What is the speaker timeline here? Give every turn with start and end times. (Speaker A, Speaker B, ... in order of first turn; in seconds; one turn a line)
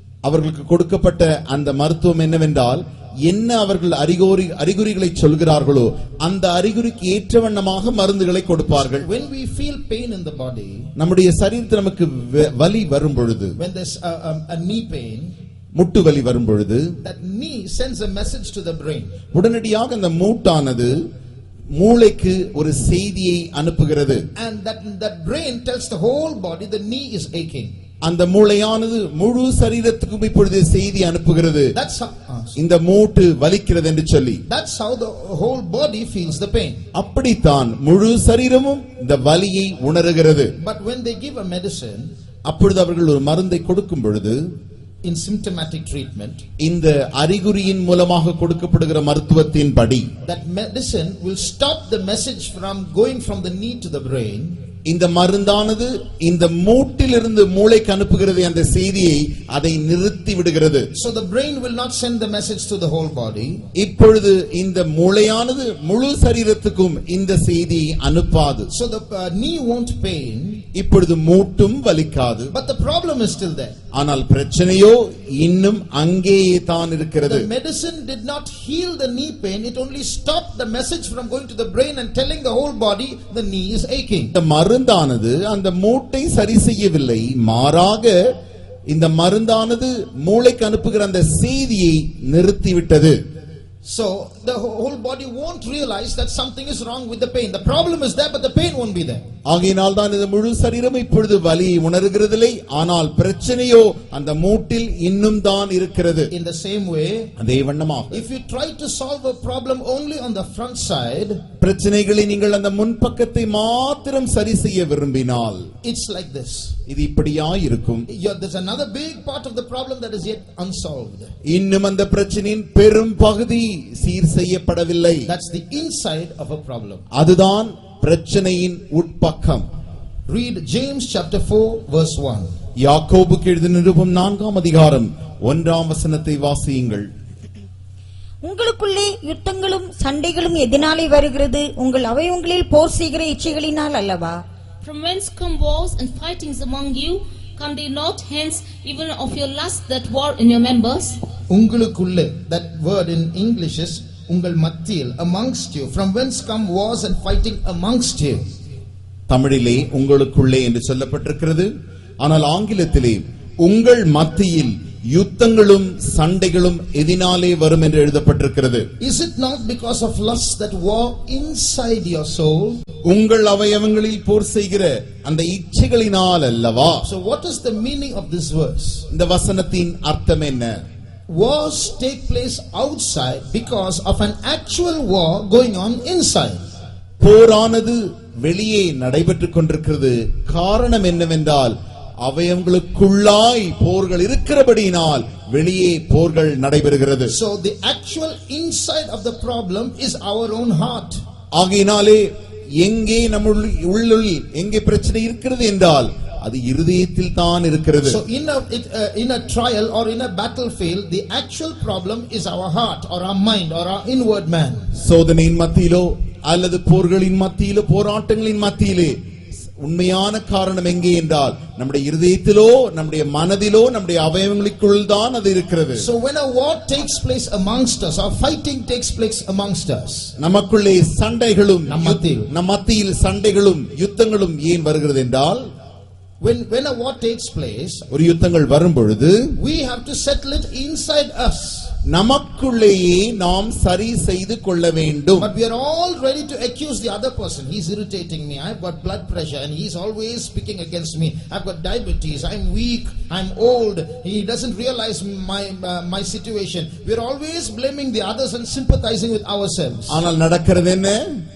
Speaker A: 0.2-9.1
Speaker B: 8.8-10.9
Speaker A: 11.0-13.6
Speaker B: 13.6-15.4
Speaker A: 15.8-16.9
Speaker B: 17.0-19.2
Speaker A: 19.3-21.1
Speaker A: 21.7-24.3
Speaker B: 24.4-27.7
Speaker A: 28.0-31.7
Speaker B: 31.7-32.6
Speaker A: 32.6-34.4
Speaker B: 34.5-36.8
Speaker A: 36.9-40.5
Speaker B: 40.6-42.1
Speaker A: 42.5-44.4
Speaker B: 45.0-46.4
Speaker A: 46.6-50.1
Speaker B: 50.2-54.6
Speaker A: 54.9-60.9
Speaker B: 60.9-63.6
Speaker A: 63.8-68.7
Speaker B: 68.7-70.7
Speaker A: 70.7-72.5
Speaker B: 72.5-73.8
Speaker A: 73.9-77.5
Speaker B: 77.2-84.3
Speaker A: 84.3-88.2
Speaker A: 88.9-93.2
Speaker B: 93.8-99.2
Speaker A: 99.5-106.3
Speaker B: 106.3-107.3
Speaker A: 107.4-108.2
Speaker B: 108.1-111.4
Speaker A: 111.6-115.7
Speaker B: 115.8-116.8
Speaker A: 116.9-118.1
Speaker B: 118.1-121.3
Speaker A: 121.5-125.3
Speaker B: 125.3-127.0
Speaker A: 127.1-129.7
Speaker B: 130.3-132.5
Speaker A: 132.8-137.1
Speaker C: 138.4-144.4
Speaker D: 144.8-151.2
Speaker B: 151.5-158.4
Speaker A: 159.3-161.7
Speaker A: 162.2-168.9
Speaker B: 169.0-172.8
Speaker A: 173.1-177.1
Speaker B: 177.0-179.1
Speaker A: 179.1-180.8
Speaker B: 181.3-186.7
Speaker A: 187.2-197.3
Speaker B: 197.3-201.2
Speaker A: 201.6-202.3
Speaker A: 202.8-208.2
Speaker B: 208.0-214.9
Speaker A: 214.9-219.2
Speaker A: 219.8-226.1
Speaker B: 226.0-230.3
Speaker A: 230.4-235.7
Speaker B: 231.9-232.5
Speaker B: 236.4-238.0
Speaker A: 238.1-239.6
Speaker B: 239.6-241.9
Speaker A: 242.1-245.5
Speaker B: 245.4-260.2
Speaker A: 260.1-261.2